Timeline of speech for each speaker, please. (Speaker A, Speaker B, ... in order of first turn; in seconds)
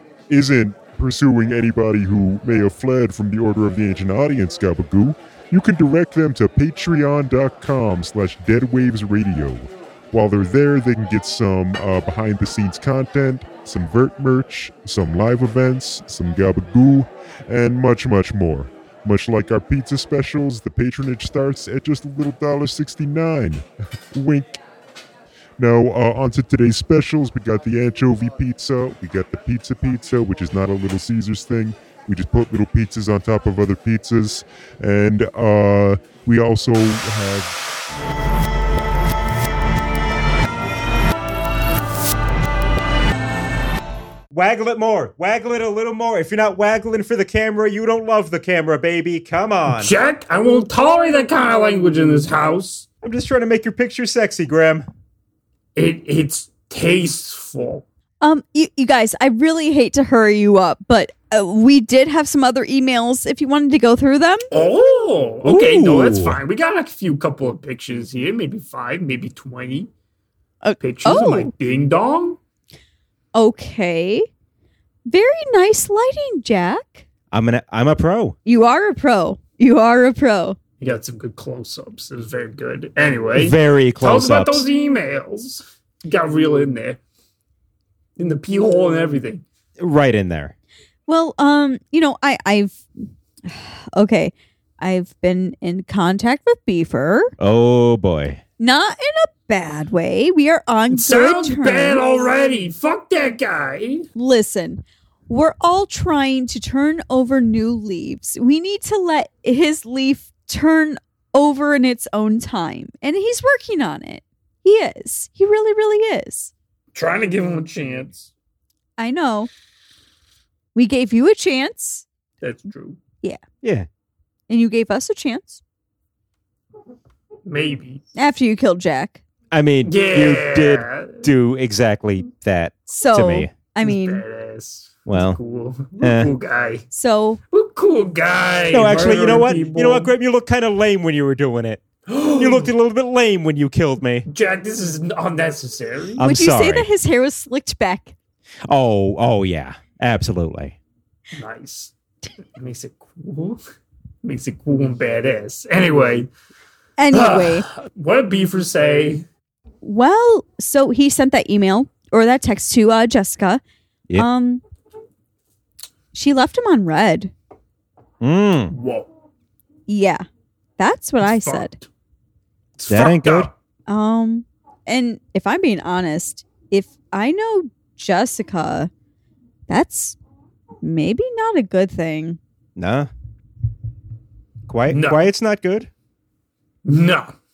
Speaker A: 0.3-24.6, 25.6-37.5
Speaker B: 44.3-49.9, 53.0-54.9, 65.4-66.4, 77.3-78.3, 83.3-84.7, 89.8-90.5, 97.4-98.4, 123.6-123.9, 129.5-133.5, 135.1-135.4, 136.0-136.3, 138.7-141.8, 142.4-144.2, 146.2-146.9, 148.7-150.8, 168.2-168.7, 172.9-173.5, 182.8-183.1, 184.7-185.9
Speaker C: 49.7-52.9, 55.8-57.8, 64.5-69.9, 70.8-72.4, 80.8-87.0, 88.2-89.4, 100.9-104.1, 116.9-118.3, 122.4-123.0, 127.5-128.0, 129.8-131.2, 133.8-136.8, 137.5-140.1, 142.1-142.7, 144.3-146.2, 151.3-151.9, 152.5-153.6, 154.2-156.3, 157.1-159.2, 168.7-169.1, 171.2-171.8, 172.8-173.5, 184.9-185.3, 186.8-187.3
Speaker D: 58.2-64.5, 70.6-71.5, 73.3-74.3, 75.1-77.0, 78.4-80.6, 91.1-92.8, 93.5-97.3, 98.6-102.0, 104.1-116.5, 119.0-119.5, 120.7-122.0, 124.5-125.6, 128.2-129.2, 132.9-134.2, 136.9-137.4, 146.2-148.1, 157.0-157.7, 159.8-163.6, 164.1-164.6, 166.1-167.3, 169.9-170.2, 170.8-171.7, 173.9-178.9, 179.7-180.2, 180.8-182.4